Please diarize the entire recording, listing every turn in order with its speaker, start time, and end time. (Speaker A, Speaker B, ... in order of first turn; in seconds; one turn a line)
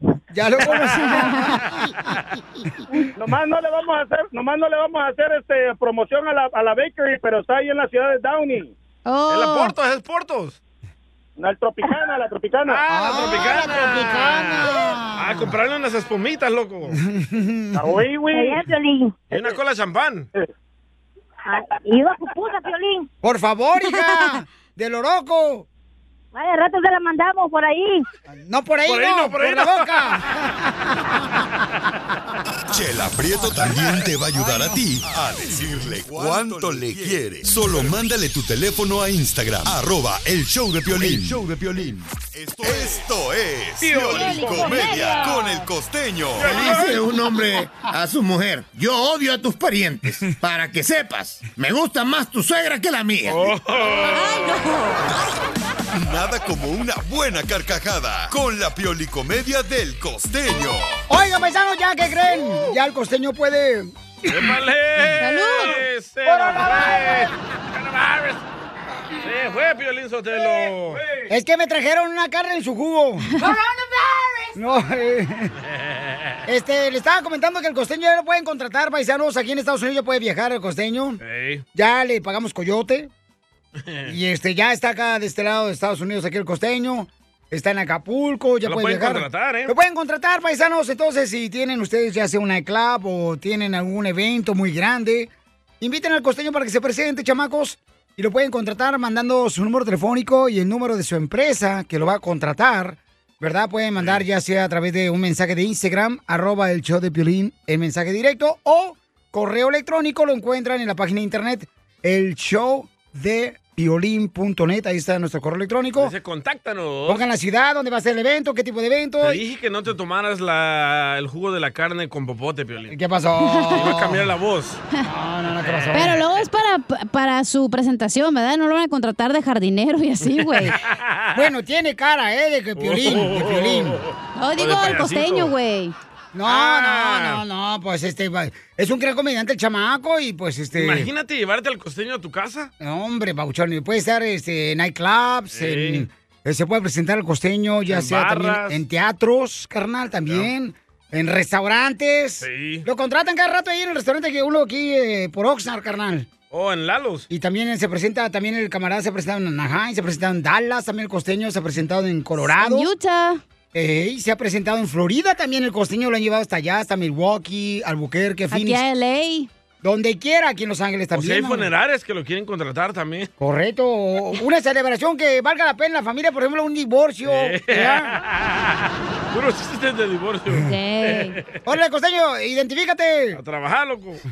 Speaker A: 0.3-2.8
Speaker B: 0.7-1.5
Speaker C: 3.2-8.7
Speaker D: 9.1-9.7
Speaker B: 9.3-10.6
Speaker C: 11.4-12.8
Speaker B: 12.7-17.0
Speaker A: 12.9-15.6
Speaker A: 16.9-17.9
Speaker C: 17.8-18.6
Speaker E: 18.3-19.1
Speaker B: 19.3-20.3
Speaker E: 21.5-23.1
Speaker A: 23.2-25.7
Speaker E: 26.3-28.1
Speaker A: 28.3-31.1
Speaker B: 28.9-30.2
Speaker F: 32.7-46.6
Speaker A: 34.4-34.8
Speaker B: 37.7-37.9
Speaker E: 44.3-45.3
Speaker B: 46.4-47.0
Speaker G: 46.5-53.5
Speaker B: 53.3-54.3
Speaker D: 54.1-55.1
Speaker F: 55.9-61.0
Speaker A: 61.1-64.5
Speaker B: 64.3-68.4
Speaker D: 65.2-65.8
Speaker A: 66.3-67.2
Speaker B: 69.2-71.0
Speaker A: 71.3-73.4
Speaker A: 74.5-75.5
Speaker A: 76.5-81.2
Speaker B: 81.2-81.6
Speaker A: 81.7-83.1
Speaker B: 83.8-84.1
Speaker A: 84.1-95.3
Speaker B: 88.7-89.7
Speaker A: 95.8-116.1
Speaker B: 104.0-104.2
Speaker B: 116.0-117.2
Speaker A: 117.1-119.4
Speaker B: 119.2-123.0
Speaker A: 122.9-124.2
Speaker B: 123.7-124.8
Speaker A: 125.0-126.2
Speaker B: 125.6-126.2
Speaker D: 125.9-130.8
Speaker B: 130.3-131.4
Speaker A: 131.3-134.0
Speaker B: 132.8-135.5
Speaker D: 134.4-135.9
Speaker A: 136.3-141.1
Speaker B: 136.5-137.4
Speaker B: 140.7-142.7
Speaker A: 142.8-156.3
Speaker B: 145.5-146.1
Speaker B: 147.9-148.8
Speaker B: 150.3-150.5
Speaker B: 152.4-152.9
Speaker B: 156.5-157.3
Speaker A: 157.3-162.9
Speaker D: 162.4-163.4
Speaker A: 163.7-168.8
Speaker D: 168.5-169.5
Speaker A: 169.8-171.7
Speaker B: 171.1-173.3
Speaker A: 173.4-178.1
Speaker B: 177.2-178.7
Speaker B: 179.3-181.4
Speaker D: 180.6-181.4
Speaker A: 181.7-183.4
Speaker B: 183.3-184.2